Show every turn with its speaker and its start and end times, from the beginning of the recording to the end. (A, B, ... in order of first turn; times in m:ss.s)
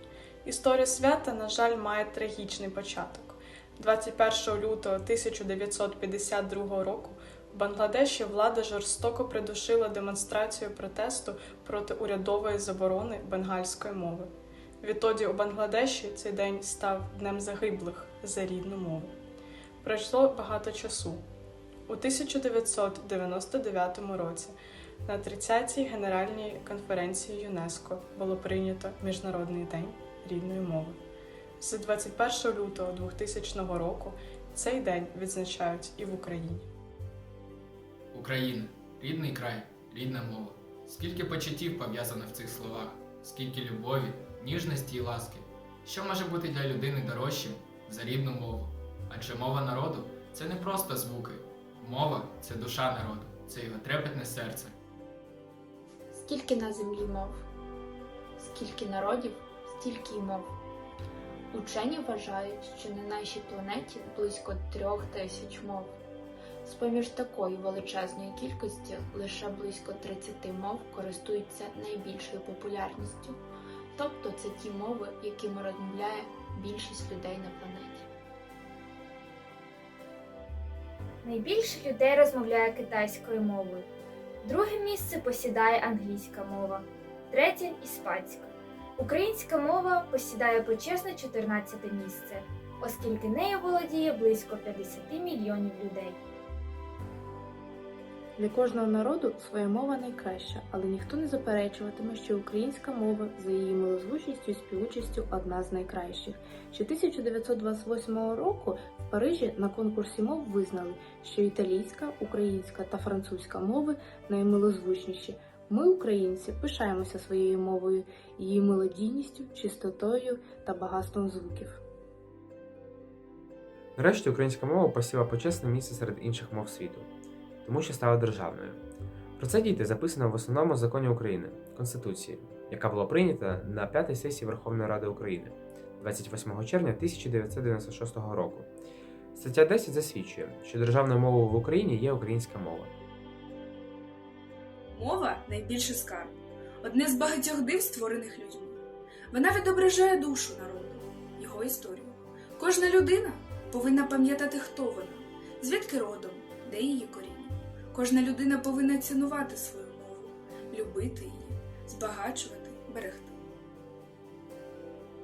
0:00.4-0:14.3 A
0:14.8-0:19.1 A
0:19.8-0:21.2 A
0:21.9-0:31.0 A
0:31.6-0:36.7 A
0:38.1-0:54.7 B
0:56.2-0:57.4 C
0:58.4-1:00.5 C
1:01.5-1:05.9 C
1:06.6-1:13.4 C
1:14.0-1:18.1 C
1:21.2-1:23.9 D
1:24.4-1:36.2 D
1:38.4-2:01.8 E
2:04.0-2:07.1 F
2:07.6-2:08.8 F
2:09.4-2:18.7 F
2:19.4-2:22.9 F
2:24.9-2:28.8 G
2:29.3-2:43.4 G